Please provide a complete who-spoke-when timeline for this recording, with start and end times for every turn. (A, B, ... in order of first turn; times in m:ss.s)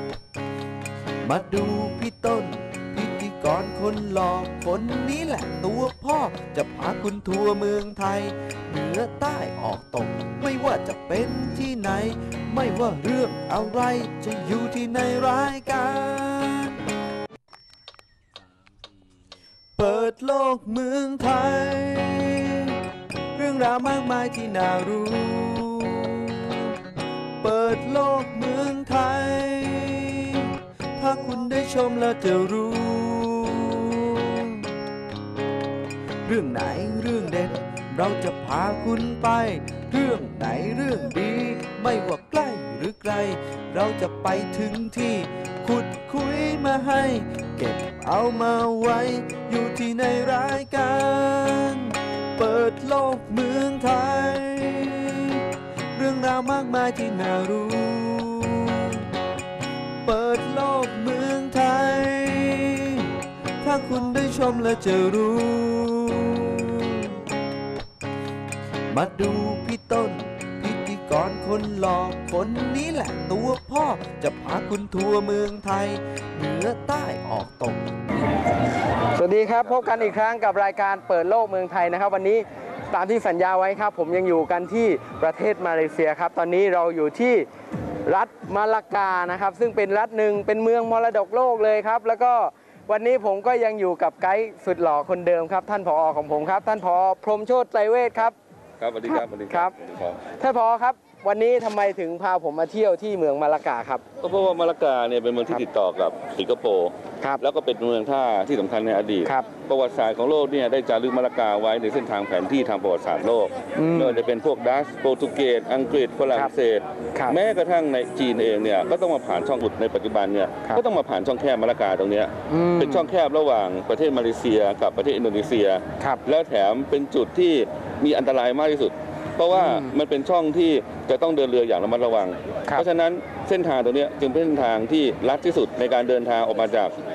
0:01.2-0:16.8 A
0:19.8-0:22.8 A
0:23.3-0:26.8 A
0:27.4-0:34.7 A
0:36.2-0:59.1 A
1:00.0-1:07.2 A
1:08.9-1:17.8 A
1:19.1-1:27.4 B
1:19.6-1:20.1 C
1:28.0-1:38.4 B
1:38.8-1:40.2 C
1:39.0-1:39.7 B
1:40.4-1:44.0 B
1:44.2-2:17.0 C
1:53.7-1:54.2 B
2:02.5-2:03.1 B
2:09.5-2:09.9 B